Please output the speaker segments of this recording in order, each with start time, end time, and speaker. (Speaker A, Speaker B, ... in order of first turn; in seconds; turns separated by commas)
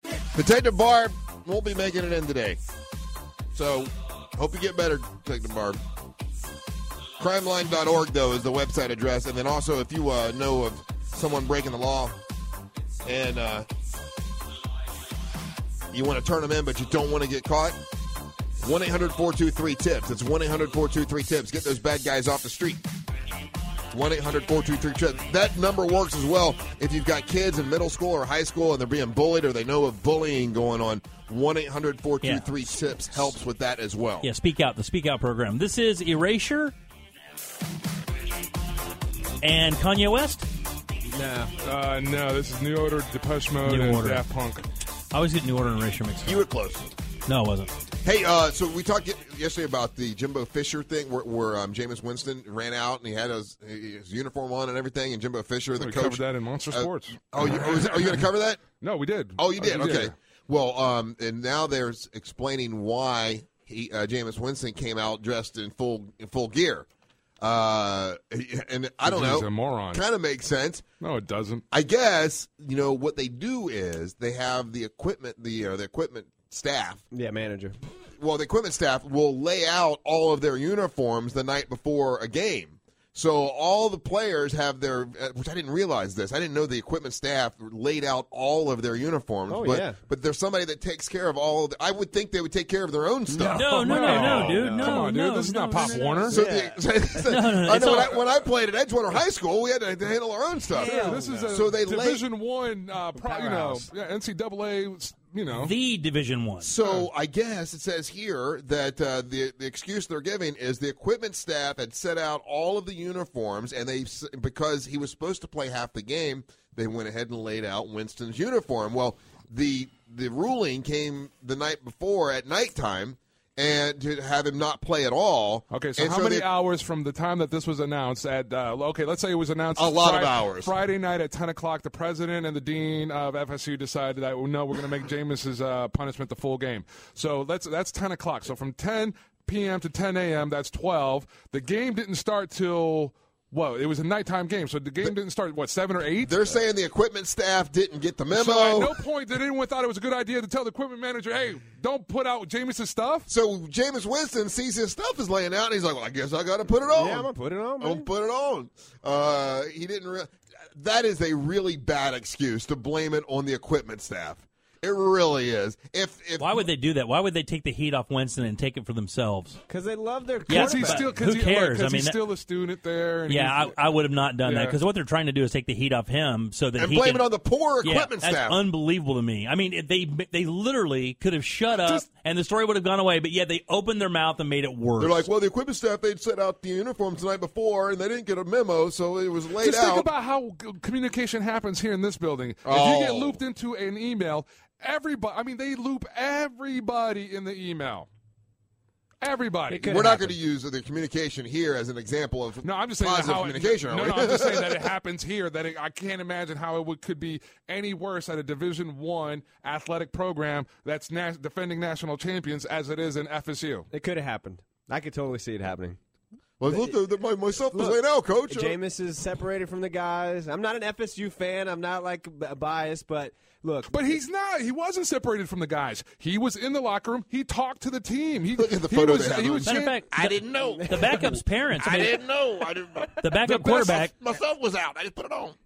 Speaker A: 0.3-2.6, Speaker A: 3.5-5.8, Speaker A: 7.2-12.2, Speaker A: 13.1-13.7, Speaker A: 15.9-17.8, Speaker A: 18.6-22.8, Speaker A: 23.9-34.3, Speaker B: 32.2-32.5, Speaker B: 34.2-36.7, Speaker B: 39.4-40.5, Speaker C: 41.1-41.5, Speaker D: 41.6-44.6, Speaker B: 43.6-44.2, Speaker B: 45.1-46.5, Speaker A: 46.2-46.9, Speaker B: 47.3-47.7, Speaker A: 48.0-58.6, Speaker D: 55.8-58.3, Speaker D: 58.8-60.1, Speaker A: 59.4-66.9, Speaker A: 67.4-70.8, Speaker D: 69.0-70.0, Speaker D: 71.0-71.6, Speaker A: 71.7-77.0, Speaker C: 77.1-77.8, Speaker A: 78.2-93.7, Speaker C: 89.5-90.0, Speaker C: 93.4-95.0, Speaker B: 93.5-96.4, Speaker D: 93.7-96.4, Speaker C: 95.9-96.8, Speaker A: 96.3-102.2, Speaker B: 97.2-98.2, Speaker C: 100.7-101.6, Speaker D: 100.8-105.7, Speaker C: 103.2-103.8, Speaker B: 105.5-106.7, Speaker A: 106.6-126.5, Speaker D: 125.7-146.4, Speaker A: 129.8-130.7, Speaker A: 146.2-149.0, Speaker D: 148.3-153.3, Speaker A: 153.3-166.7, Speaker C: 156.9-158.1, Speaker B: 166.4-169.6, Speaker C: 169.7-171.1, Speaker D: 170.5-173.8, Speaker B: 170.5-172.2, Speaker B: 173.3-177.3, Speaker D: 174.4-174.8, Speaker A: 176.8-178.6, Speaker B: 177.8-185.3, Speaker A: 185.0-190.1, Speaker D: 189.6-198.1, Speaker A: 192.7-193.4, Speaker D: 199.2-200.0, Speaker C: 199.7-200.3, Speaker A: 199.9-204.9, Speaker D: 202.6-213.9, Speaker C: 213.9-216.0, Speaker A: 216.6-218.8, Speaker C: 216.7-217.0, Speaker C: 217.7-224.0, Speaker D: 223.9-230.0, Speaker A: 228.6-235.6, Speaker B: 229.7-232.2, Speaker C: 230.6-231.4, Speaker B: 233.2-234.1, Speaker D: 233.5-233.9